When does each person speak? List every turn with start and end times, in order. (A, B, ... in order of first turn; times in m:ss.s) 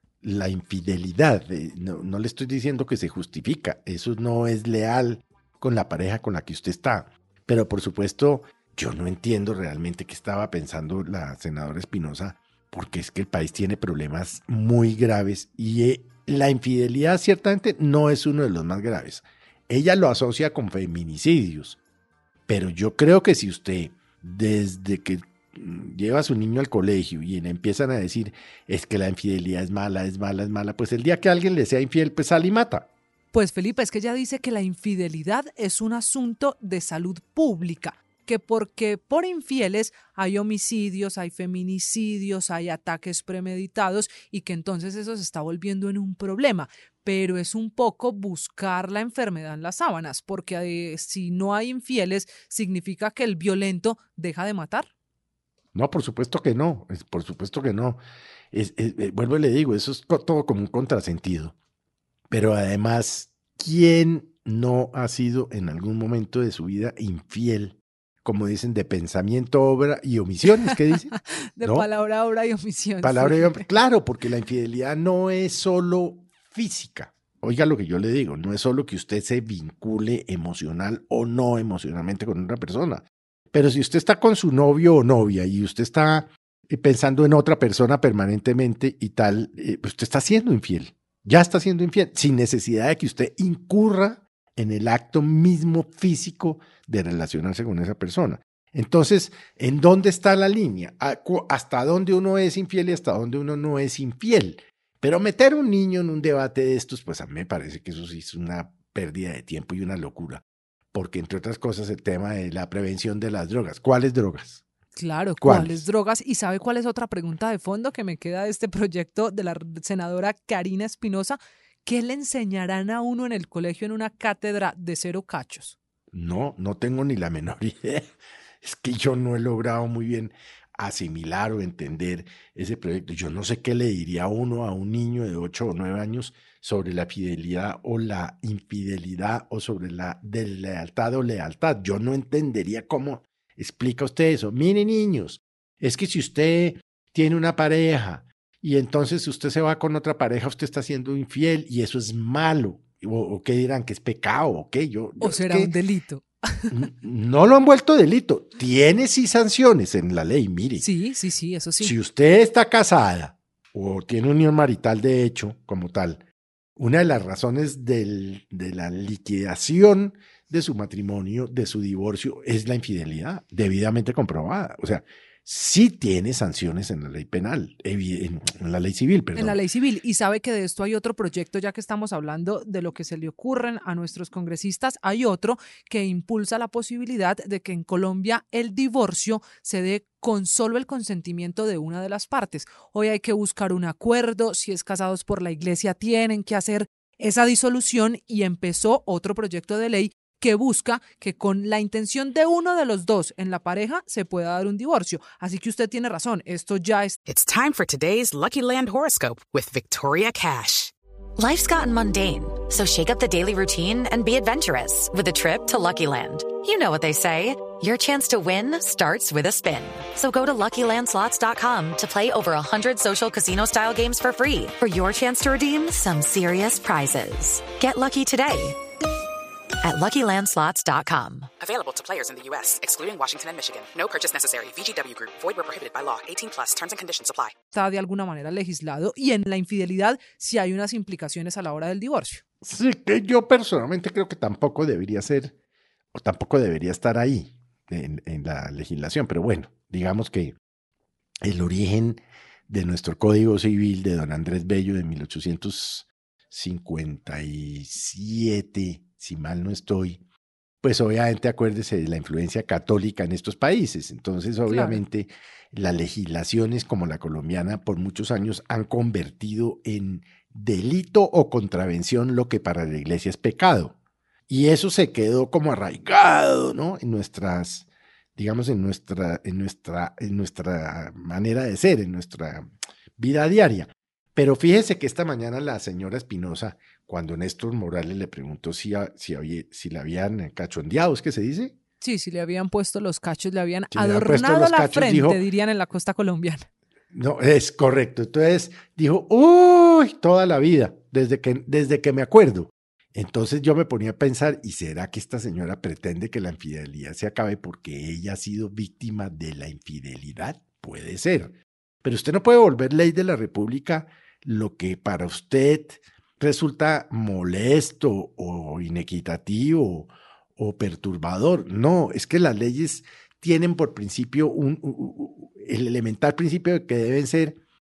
0:00.2-0:21.8 A
0:22.5-0:32.9 A
0:33.3-0:54.9 B
0:55.7-0:58.0 A
0:58.5-1:01.6 A
1:02.3-1:11.1 A
1:10.7-1:13.6 B
1:13.0-1:54.6 A
1:55.0-2:05.8 B
1:55.4-1:55.8 A
2:06.1-2:35.7 A
2:35.2-2:36.7 B
2:36.7-2:40.8 A
2:40.8-2:41.9 B
2:41.8-2:46.2 A
2:46.8-2:59.6 A
2:59.4-3:27.2 B
3:27.3-3:30.9 C
3:31.4-3:48.8 D
3:49.8-3:51.5 D
3:51.6-3:57.6 C
3:57.7-4:02.4 B
4:02.6-4:05.5 A
4:06.1-4:10.6 A
4:11.4-4:20.2 A
4:20.8-4:33.9 A
4:24.7-4:25.0 B
4:34.5-4:51.8 A
4:52.0-4:56.7 B
4:53.9-4:55.4 A
4:57.1-5:27.6 A